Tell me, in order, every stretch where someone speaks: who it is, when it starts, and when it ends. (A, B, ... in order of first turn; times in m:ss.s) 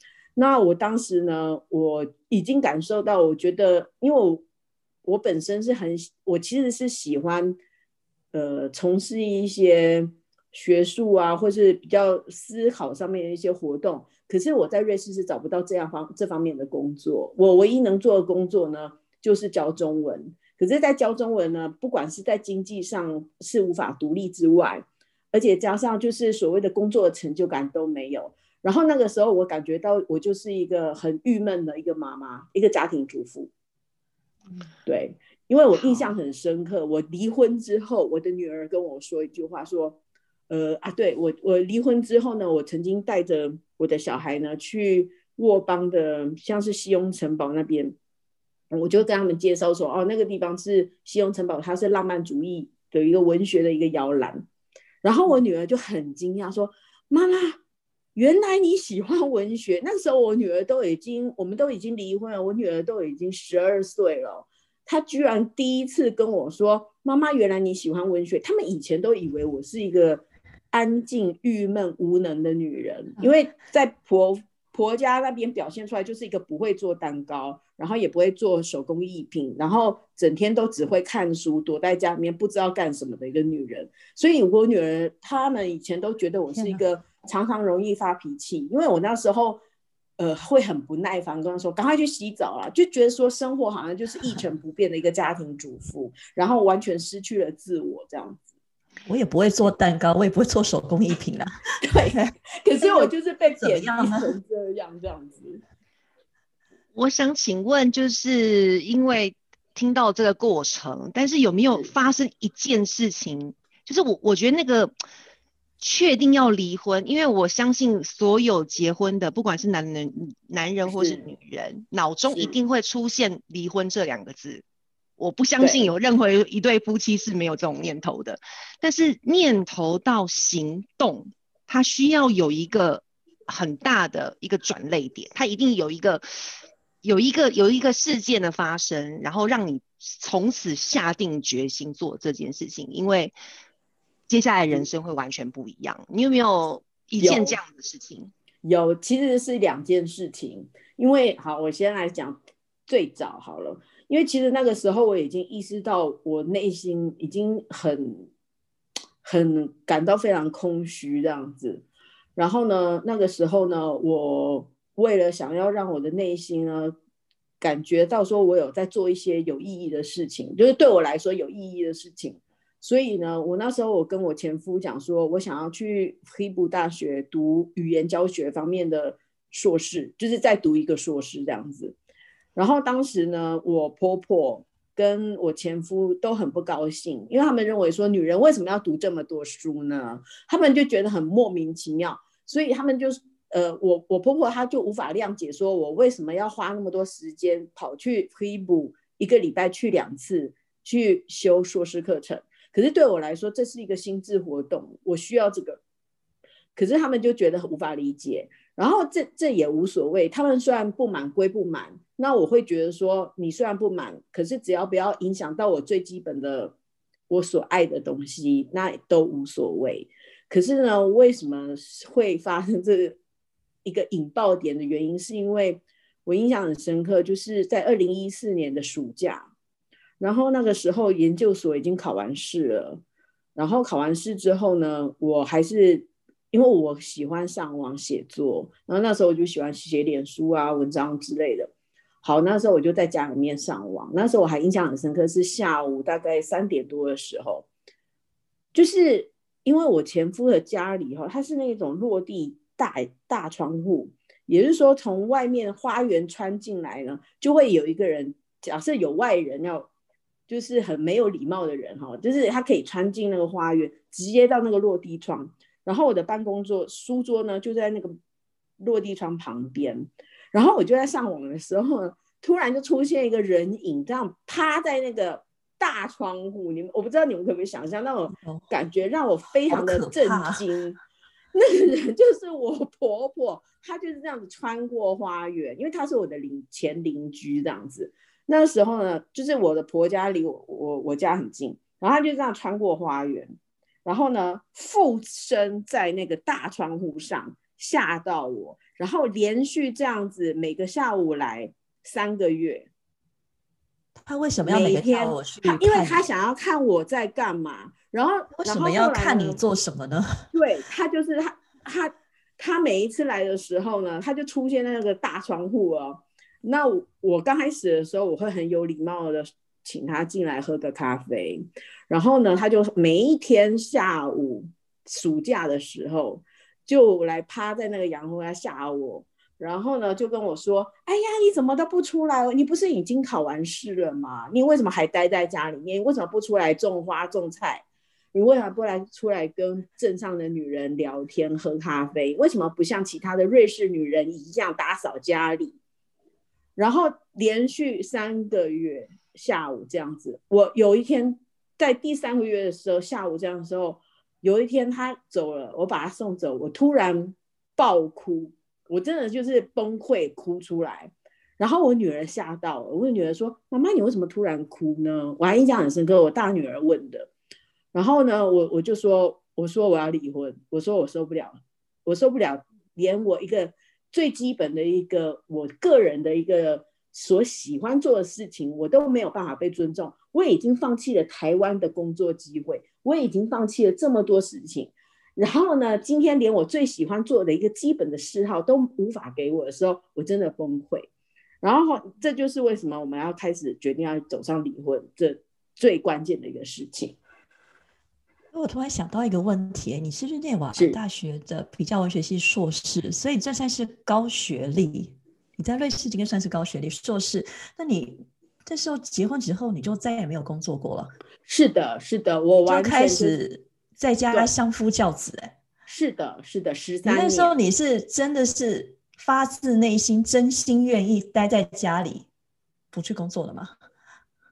0:00.4-0:04.4 A
0:05.0-0:07.6 A
0:08.3-0:33.5 A
0:34.9-0:40.0 A
0:40.5-0:48.0 A
0:48.7-0:54.4 A
0:55.0-0:57.6 A
0:58.2-1:29.6 A
1:26.6-1:26.8 B
1:30.2-1:38.4 A
1:39.1-1:44.3 B
1:41.8-1:45.6 A
1:47.0-1:54.9 C
1:55.8-2:04.6 C
2:00.9-2:01.3 A
2:02.3-2:02.6 A
2:05.2-2:16.5 C
2:05.6-2:05.9 A
2:17.0-2:23.3 C
2:24.3-2:28.3 C
2:27.2-2:27.6 A
2:28.6-2:38.3 A
2:39.2-2:41.8 A
2:42.4-2:47.0 A
2:47.6-3:02.0 A
3:02.6-3:25.8 A
3:26.8-3:36.8 A
3:37.3-3:43.2 A
3:43.8-3:49.5 A
3:50.2-3:53.0 A
3:53.6-4:01.7 A
4:02.2-4:07.7 A
4:08.7-4:19.9 A
4:20.5-4:28.2 A
4:28.8-4:41.0 A
4:38.3-4:38.6 B
4:39.7-4:40.6 B
4:41.5-4:53.5 A
4:54.0-5:02.9 A
5:04.2-5:06.2 B
5:04.6-5:09.6 A
5:08.6-5:10.4 B
5:10.5-5:45.8 A
5:46.8-6:07.3 A
6:07.9-6:31.1 A
6:31.6-6:37.2 A
6:38.5-6:51.1 B
6:51.5-6:53.4 A
6:52.7-6:55.6 B
6:55.9-6:57.5 A
6:57.0-7:02.3 B
7:02.9-7:03.8 B